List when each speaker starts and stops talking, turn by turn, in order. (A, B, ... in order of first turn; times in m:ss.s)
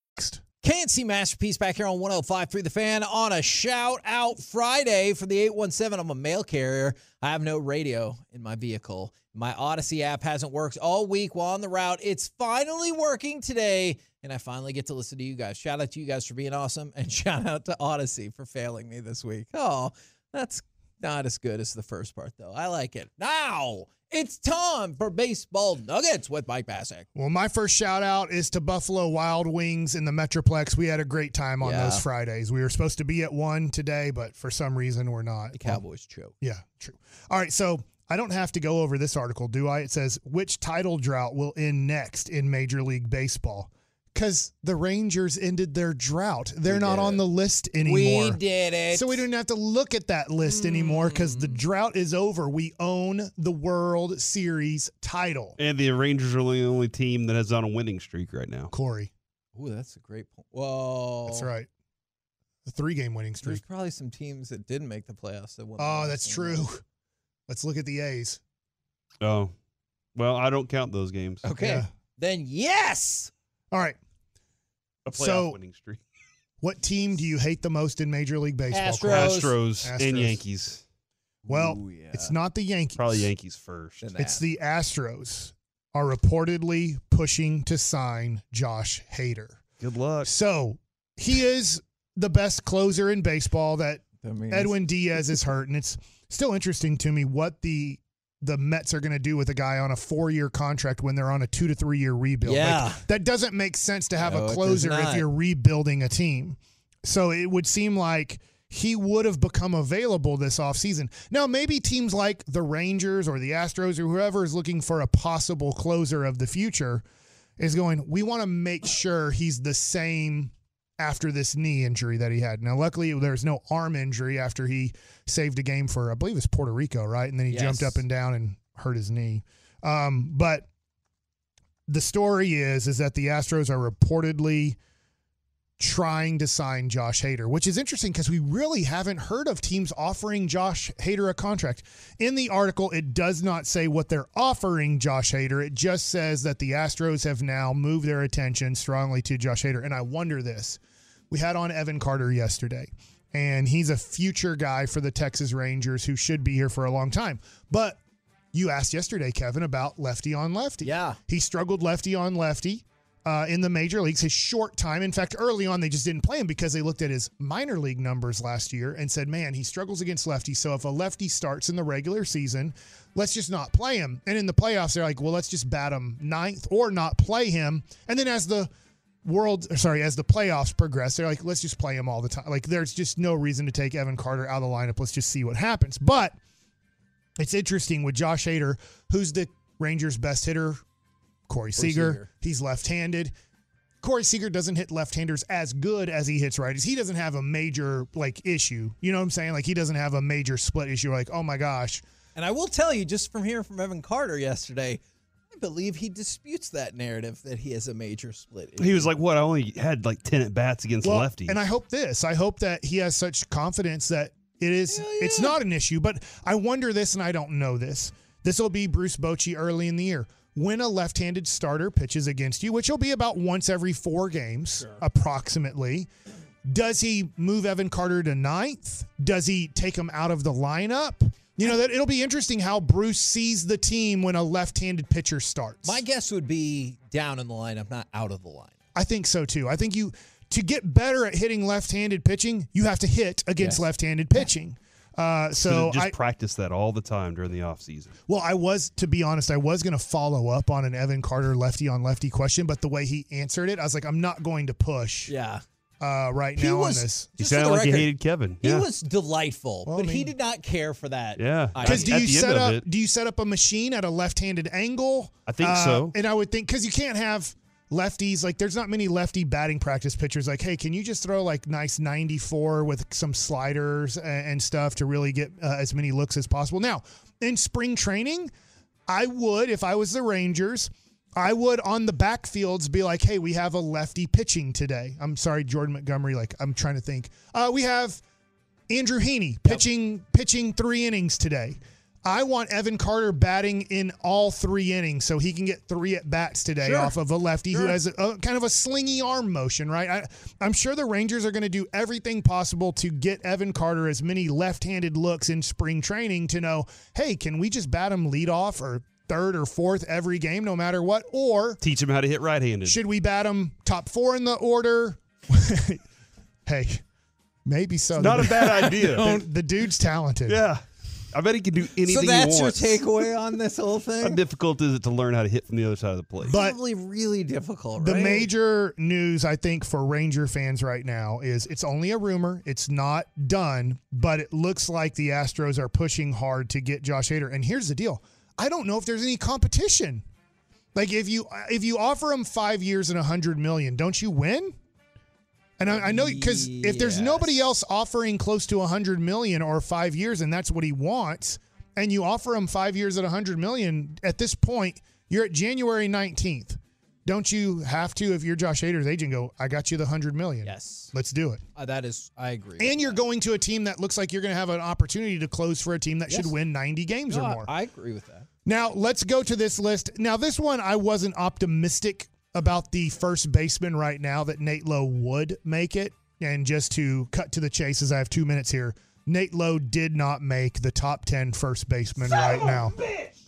0:00.6-0:27.1 A
0:27.1-0:35.8 B
0:31.6-0:32.0 A
0:35.5-0:36.3 A
0:36.4-0:48.4 B
0:46.7-0:47.2 A
0:47.8-0:49.2 A
0:48.9-0:55.6 B
0:50.5-0:51.6 A
0:55.6-0:58.7 C
0:58.7-0:59.1 B
0:59.5-1:01.5 A
1:01.3-1:01.7 B
1:02.6-1:03.6 B
1:03.4-1:06.6 A
1:05.8-1:06.8 B
1:07.5-1:08.4 B
1:09.2-1:09.5 C
1:10.1-1:11.4 C
1:11.4-1:13.3 A
1:11.6-1:11.9 B
1:13.7-1:14.0 B
1:15.1-1:16.0 C
1:15.1-1:15.6 B
1:16.6-1:20.4 B
1:18.7-1:19.5 A
1:19.1-1:20.8 C
1:21.4-1:22.3 A
1:21.5-1:23.3 B
1:23.0-1:24.0 C
1:24.0-1:24.4 A
1:24.2-1:29.6 B
1:29.8-1:30.3 C
1:30.2-1:57.0 B
1:34.2-1:34.8 A
1:42.4-1:43.0 A
1:44.2-1:45.3 A
1:57.6-2:10.7 B
2:07.5-2:08.0 A
2:11.9-2:14.8 B
2:15.8-2:38.0 B
2:38.5-2:58.7 B
2:40.8-2:41.2 A
2:59.2-3:06.4 B
3:07.4-3:10.8 B
3:11.5-3:13.3 B
3:11.8-3:12.3 A
3:14.0-3:22.0 B
3:22.4-3:25.0 A
3:25.5-3:29.1 A
3:28.8-3:31.6 C
3:31.0-3:46.1 B
3:34.9-3:35.6 A
3:46.6-3:56.0 B
3:55.8-3:58.8 A
3:58.9-4:06.1 B
4:03.6-4:03.9 A
4:05.6-4:08.2 C
4:08.3-4:15.3 B
4:15.3-4:15.6 A
4:16.0-4:17.3 B
4:16.6-4:18.1 A
4:17.4-4:18.9 C
4:18.6-4:22.2 A
4:19.8-4:20.3 B
4:21.4-4:22.8 C
4:21.8-4:38.5 B
4:25.5-4:26.1 C
4:39.1-4:48.2 B
4:48.9-5:11.8 B
4:56.8-4:57.1 A
4:57.7-4:58.0 A
5:11.8-5:13.0 C
5:12.8-5:16.0 B
5:16.6-5:17.0 B
5:17.6-5:20.6 B
5:18.2-5:19.3 C
5:18.6-5:19.4 A
5:20.4-5:23.2 C
5:22.0-5:24.4 A
5:24.2-5:26.5 C
5:26.5-5:26.8 B
5:26.5-5:28.5 A
5:28.0-5:40.2 B
5:40.9-5:44.8 B
5:45.8-6:01.6 B
5:45.8-5:47.6 A
6:00.6-6:01.1 A
6:01.7-6:03.2 A
6:02.8-6:07.7 B
6:06.3-6:06.6 A
6:07.3-6:08.5 A
6:08.6-6:22.9 B
6:22.3-6:23.3 A